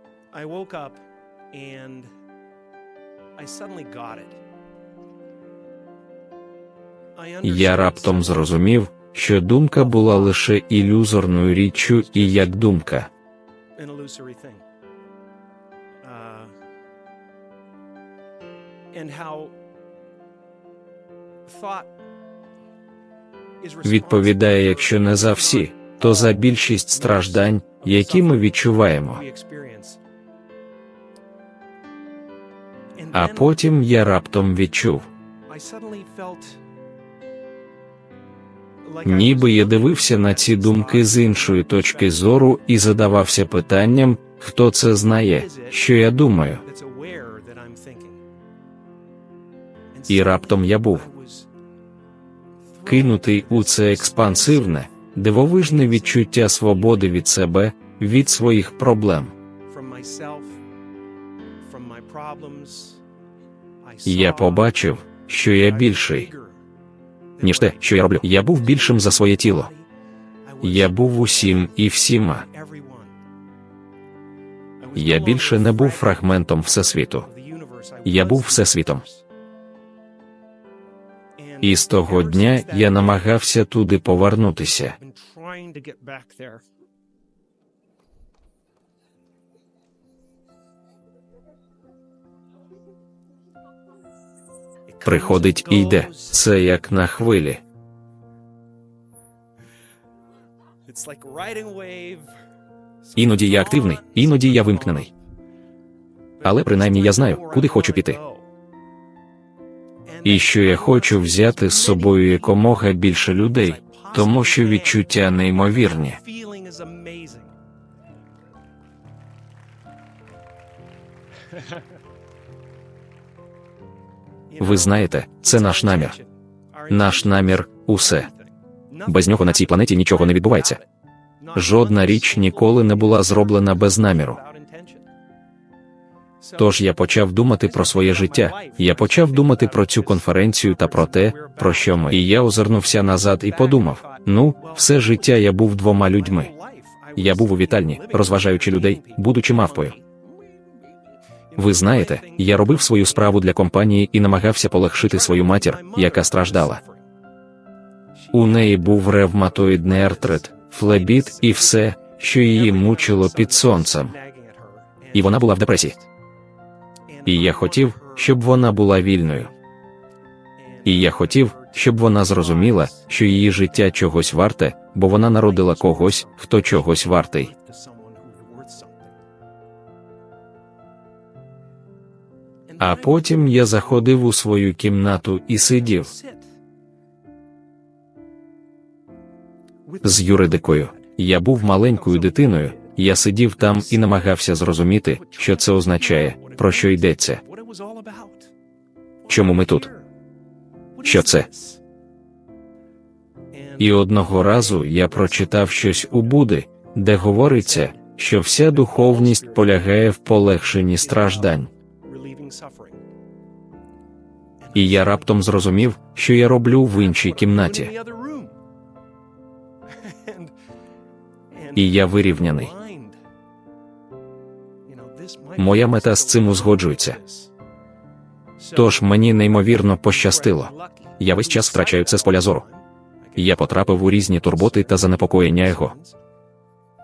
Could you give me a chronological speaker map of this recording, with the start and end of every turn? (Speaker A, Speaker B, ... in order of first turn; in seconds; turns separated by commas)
Speaker A: 0.3-2.1, Speaker A: 3.4-4.4, Speaker A: 7.2-8.6, Speaker B: 7.4-13.1, Speaker A: 9.7-10.4, Speaker A: 11.9-12.5, Speaker A: 13.8-14.6, Speaker A: 16.0-16.5, Speaker A: 18.9-19.5, Speaker A: 21.4-21.9, Speaker A: 23.6-30.0, Speaker B: 23.8-29.2, Speaker A: 33.0-33.6, Speaker B: 33.1-35.0, Speaker A: 35.5-36.6, Speaker A: 38.8-42.3, Speaker B: 39.0-46.6, Speaker A: 45.3-45.9, Speaker A: 46.6-48.2, Speaker A: 49.9-51.5, Speaker B: 50.1-51.0, Speaker A: 52.7-57.2, Speaker B: 52.9-59.3, Speaker A: 59.7-60.6, Speaker A: 61.6-63.0, Speaker A: 63.8-64.9, Speaker B: 64.0-66.3, Speaker A: 65.6-66.6, Speaker A: 67.4-69.8, Speaker B: 67.4-69.7, Speaker A: 70.4-71.7, Speaker B: 70.6-72.5, Speaker A: 72.4-73.2, Speaker A: 74.8-76.5, Speaker B: 75.0-77.3, Speaker A: 77.2-79.2, Speaker B: 78.0-79.0, Speaker A: 81.4-83.3, Speaker B: 81.6-85.0, Speaker A: 85.0-86.6, Speaker A: 94.9-96.4, Speaker B: 95.0-97.6, Speaker A: 100.9-102.3, Speaker A: 103.0-105.1, Speaker B: 103.2-105.1, Speaker A: 106.4-108.5, Speaker B: 106.4-108.2, Speaker A: 110.0-112.8, Speaker B: 110.2-116.2, Speaker A: 113.5-117.5, Speaker A: 124.5-130.9, Speaker B: 124.6-126.2, Speaker B: 126.9-128.3, Speaker B: 129.1-130.8, Speaker A: 131.4-135.1, Speaker B: 131.5-134.4, Speaker A: 136.4-136.9, Speaker B: 136.6-146.5, Speaker A: 137.6-142.2, Speaker A: 143.3-150.9, Speaker B: 147.2-149.9, Speaker A: 151.5-153.6, Speaker B: 151.6-156.8, Speaker A: 154.9-157.1, Speaker A: 158.1-166.0, Speaker B: 158.3-164.1, Speaker B: 165.1-166.0, Speaker A: 167.1-168.5, Speaker B: 167.2-169.5, Speaker A: 170.6-173.1, Speaker B: 170.8-177.5, Speaker A: 175.4-179.1, Speaker A: 182.7-184.0, Speaker B: 182.8-186.1, Speaker A: 185.9-186.5, Speaker A: 189.8-193.0, Speaker B: 190.0-197.4, Speaker A: 193.6-194.2, Speaker A: 195.0-198.5, Speaker A: 199.2-200.1, Speaker B: 199.3-199.9, Speaker A: 201.0-201.8, Speaker B: 201.0-201.5, Speaker A: 203.5-206.5, Speaker B: 203.8-211.7, Speaker A: 207.1-208.0, Speaker A: 208.6-210.0, Speaker A: 210.9-213.0, Speaker A: 214.6-215.9, Speaker B: 214.7-217.9, Speaker A: 216.9-218.5, Speaker A: 219.9-220.5, Speaker A: 221.5-223.2, Speaker B: 221.7-222.7, Speaker A: 224.8-227.5, Speaker B: 225.6-227.2, Speaker A: 228.6-229.2, Speaker B: 228.7-232.6, Speaker A: 230.1-236.2, Speaker B: 233.4-235.9